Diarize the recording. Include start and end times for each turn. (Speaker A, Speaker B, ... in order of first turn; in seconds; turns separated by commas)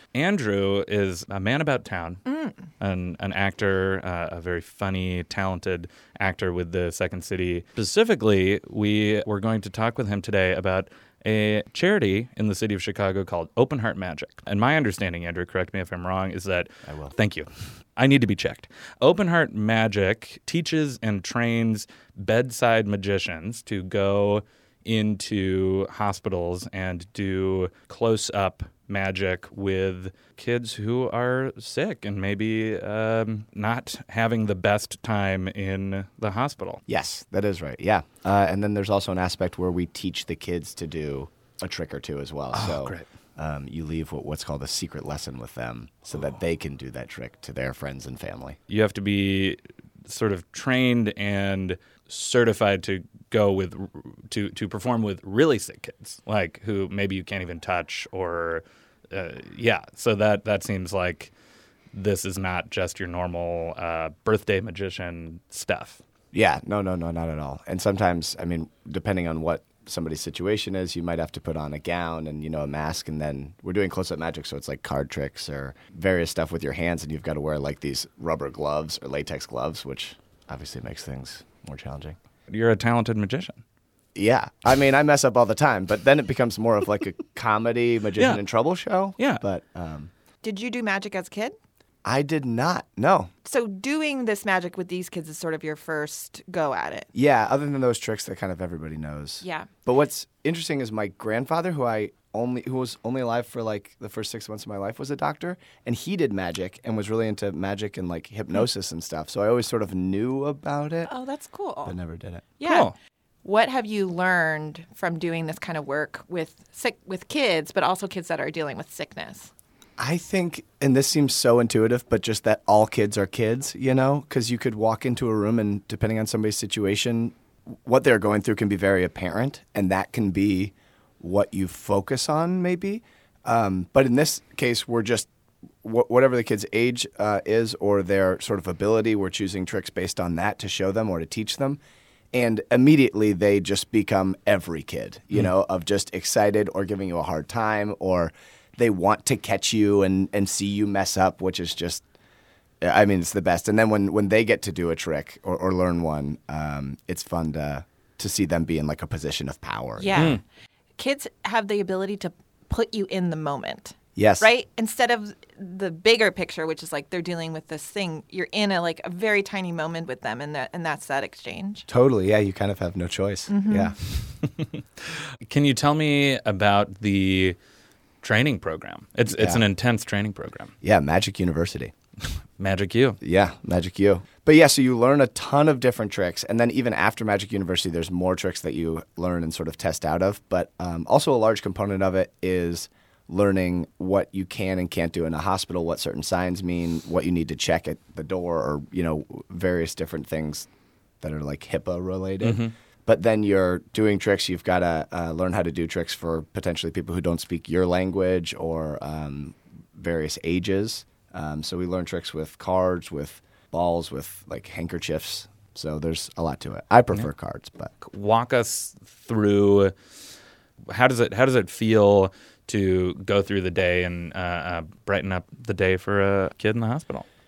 Speaker A: 0.1-2.2, Speaker B: 2.3-2.5, Speaker A: 2.8-36.8, Speaker C: 16.9-17.1, Speaker C: 36.9-48.6, Speaker A: 42.5-43.0, Speaker A: 48.7-61.3, Speaker A: 61.9-66.0, Speaker C: 66.3-82.2, Speaker A: 82.5-83.6, Speaker C: 84.2-90.1, Speaker B: 90.4-91.5, Speaker C: 92.0-93.3, Speaker B: 93.5-97.1, Speaker C: 97.1-111.1, Speaker B: 99.4-99.7, Speaker B: 111.1-112.0, Speaker C: 111.8-112.5, Speaker B: 112.6-112.9, Speaker A: 112.6-112.9, Speaker B: 113.4-119.5, Speaker C: 120.0-127.3, Speaker C: 127.9-135.3, Speaker C: 135.8-141.8, Speaker C: 142.3-152.0, Speaker C: 152.8-160.3, Speaker B: 160.0-160.4, Speaker B: 161.0-171.9, Speaker C: 164.2-164.5, Speaker C: 171.9-174.1, Speaker B: 173.5-173.9, Speaker A: 175.5-177.6, Speaker A: 178.2-180.7, Speaker C: 179.3-179.6, Speaker C: 180.8-181.9, Speaker A: 182.6-183.2, Speaker C: 183.2-200.7, Speaker C: 201.2-217.9, Speaker A: 202.4-202.7, Speaker A: 218.0-219.9, Speaker A: 220.9-227.2